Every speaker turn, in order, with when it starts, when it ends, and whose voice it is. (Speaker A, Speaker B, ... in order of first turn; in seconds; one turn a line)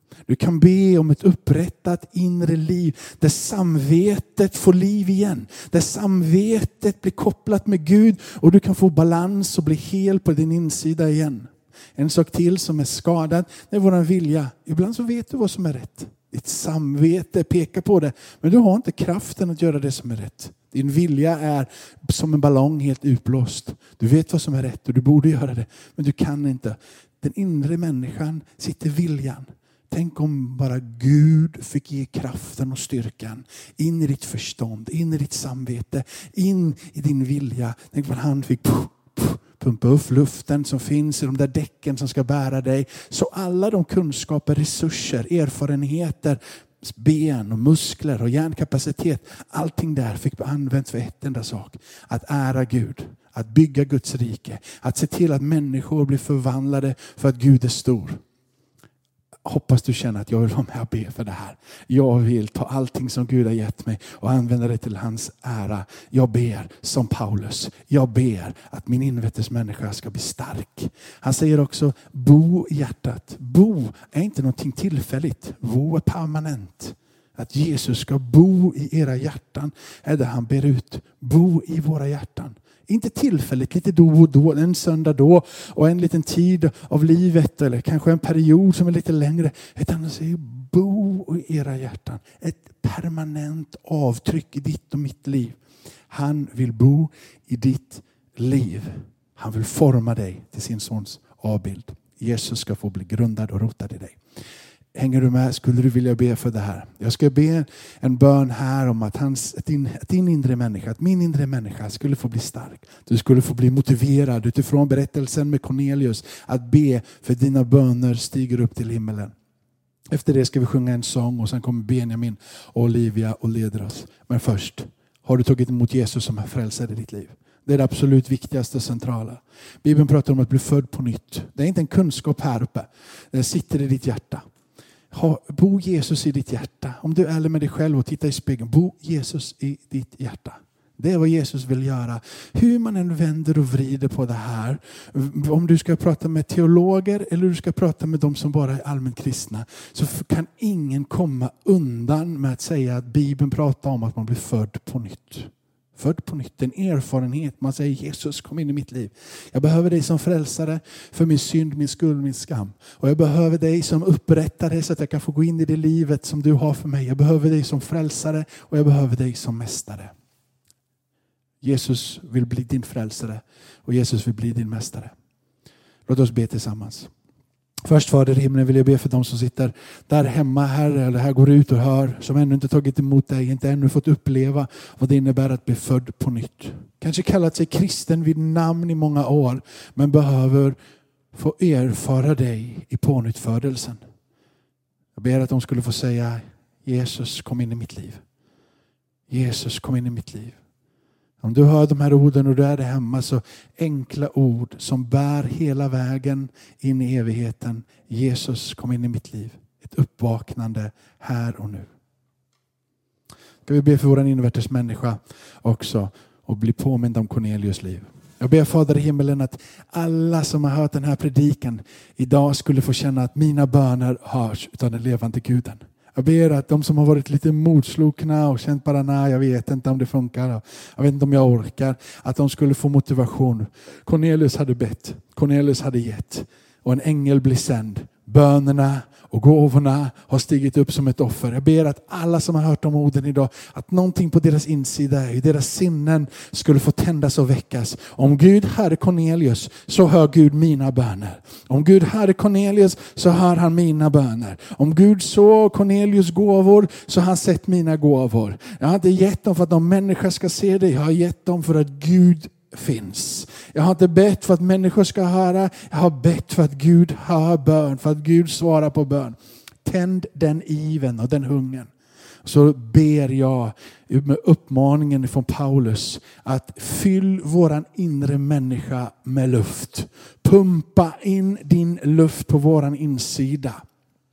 Speaker A: 0.3-58.2
Speaker A: 59.5-95.6
Speaker A: 96.1-104.2
Speaker A: 104.9-119.3
Speaker A: 120.1-134.4
Speaker A: 135.1-170.1
Speaker A: 171.6-175.1
Speaker A: 176.1-177.1
Speaker A: 177.8-190.8
Speaker A: 191.3-194.0
Speaker A: 195.1-198.2
Speaker A: 199.3-200.6
Speaker A: 201.4-211.9
Speaker A: 213.6-271.9
Speaker A: 272.4-283.8